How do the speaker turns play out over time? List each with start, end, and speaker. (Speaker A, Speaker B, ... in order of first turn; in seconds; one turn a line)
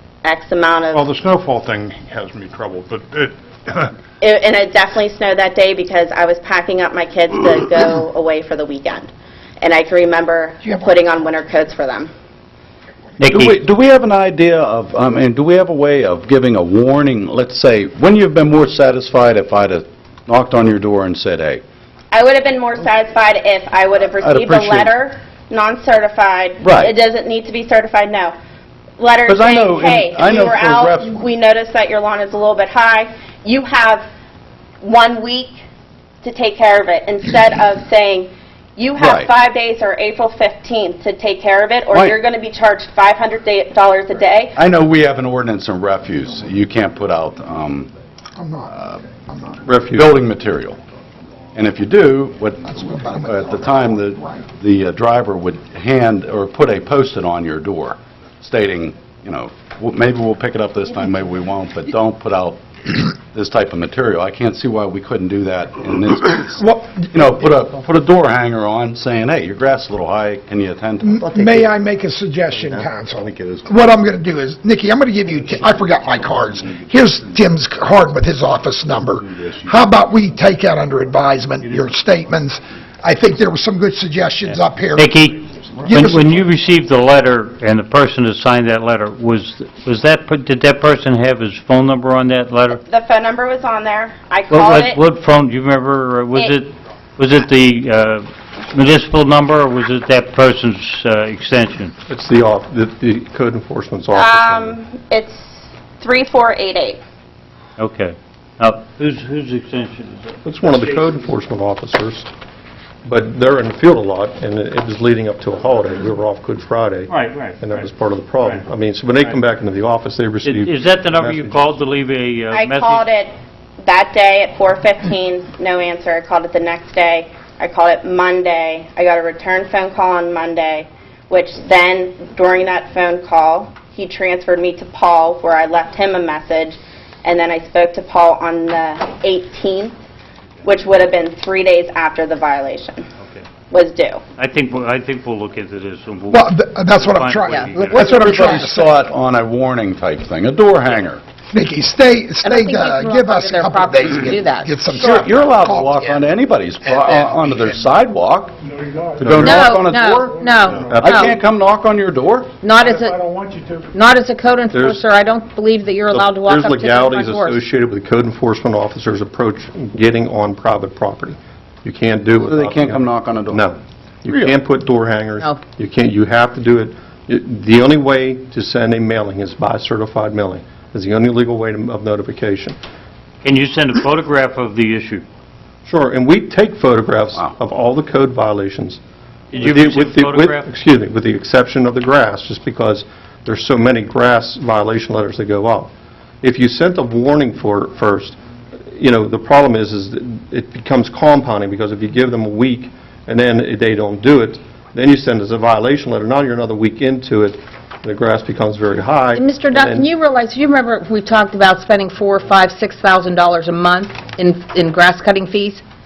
Speaker A: 0.2-1.1
Speaker B: 0.9-3.9
Speaker A: 4.2-9.1
Speaker A: 9.6-12.1
Speaker C: 10.6-11.1
Speaker D: 13.2-13.6
Speaker E: 13.2-21.6
Speaker A: 22.1-28.3
Speaker E: 24.2-24.9
Speaker E: 26.6-26.9
Speaker A: 29.0-34.0
Speaker E: 29.2-31.2
Speaker A: 34.8-35.6
Speaker A: 36.2-44.6
Speaker E: 39.0-39.3
Speaker E: 41.9-42.2
Speaker E: 44.5-47.9
Speaker C: 48.4-49.6
Speaker F: 49.6-50.0
Speaker E: 49.9-50.8
Speaker E: 51.5-71.7
Speaker C: 52.6-54.4
Speaker C: 66.6-67.1
Speaker C: 71.0-85.1
Speaker D: 84.5-92.8
Speaker C: 85.8-86.4
Speaker A: 92.8-95.0
Speaker D: 94.5-101.9
Speaker F: 102.1-104.8
Speaker A: 104.1-107.0
Speaker D: 107.8-111.0
Speaker F: 110.4-112.3
Speaker F: 113.0-121.6
Speaker D: 117.1-117.9
Speaker D: 120.4-123.0
Speaker A: 122.5-139.9
Speaker A: 140.6-143.0
Speaker A: 143.7-144.2
Speaker D: 144.4-148.3
Speaker C: 146.3-149.0
Speaker G: 147.5-148.7
Speaker E: 147.9-151.2
Speaker C: 151.5-156.3
Speaker G: 152.4-155.2
Speaker E: 154.9-158.6
Speaker C: 156.8-157.7
Speaker B: 158.6-161.4
Speaker E: 159.2-162.6
Speaker G: 159.4-161.4
Speaker F: 160.9-161.2
Speaker G: 162.6-163.3
Speaker B: 162.7-163.9
Speaker G: 163.9-167.6
Speaker F: 164.7-165.0
Speaker F: 166.1-182.8
Speaker E: 172.4-173.7
Speaker E: 174.3-174.6
Speaker D: 183.4-185.2
Speaker F: 185.8-189.0
Speaker D: 189.5-190.7
Speaker F: 189.5-195.9
Speaker F: 196.4-198.4
Speaker F: 198.9-210.1
Speaker G: 209.3-215.8